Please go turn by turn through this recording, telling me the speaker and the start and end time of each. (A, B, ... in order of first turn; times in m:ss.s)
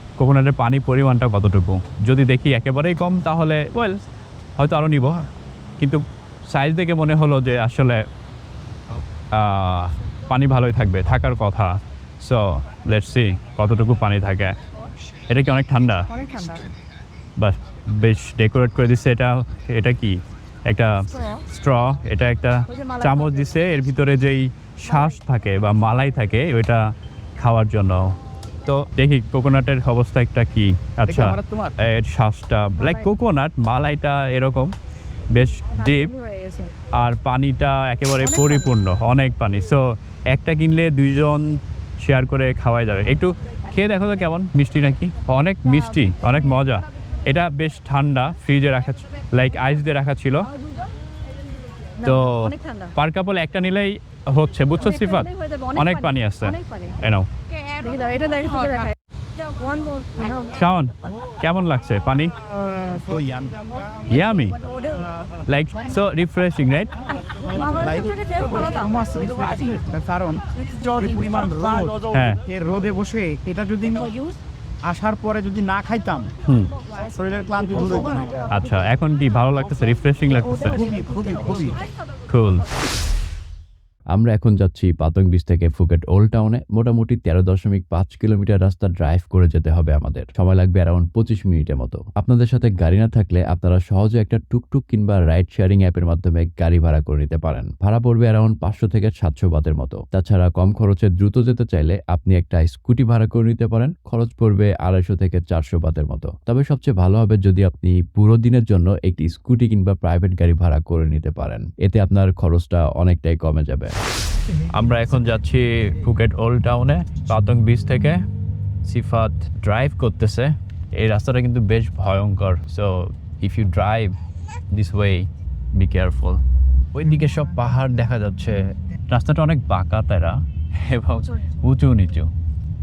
0:00.2-0:04.0 A
0:04.6-0:05.2 A
0:05.8-0:08.0 A
0:09.3-0:14.5 A
0:15.3-0:16.1 A
0:16.2-0:16.5 B
0:17.4-0:34.7 A
0:22.7-0:23.2 B
0:31.1-0:31.7 C
0:35.3-0:36.1 A
0:35.8-0:36.7 B
0:36.9-0:50.5 A
0:52.0-0:52.9 B
0:52.0-0:57.3 A
0:54.9-0:56.9 B
0:57.5-1:00.5 B
1:00.5-1:02.3 A
1:02.8-1:03.9 C
1:04.1-1:04.6 A
1:04.5-1:05.1 B
1:05.5-1:06.9 A
1:07.3-1:08.9 B
1:07.8-1:14.1 C
1:10.9-1:11.9 B
1:12.1-1:12.4 A
1:14.0-1:14.4 B
1:14.8-1:16.3 C
1:16.5-1:16.7 A
1:17.1-1:18.4 C
1:18.5-1:20.8 A
1:20.7-1:21.8 C
1:22.3-1:22.7 A
1:24.1-1:54.0 D
1:54.7-1:58.2 A
1:58.8-2:04.2 A
2:04.7-2:06.4 A
2:06.9-2:12.3 A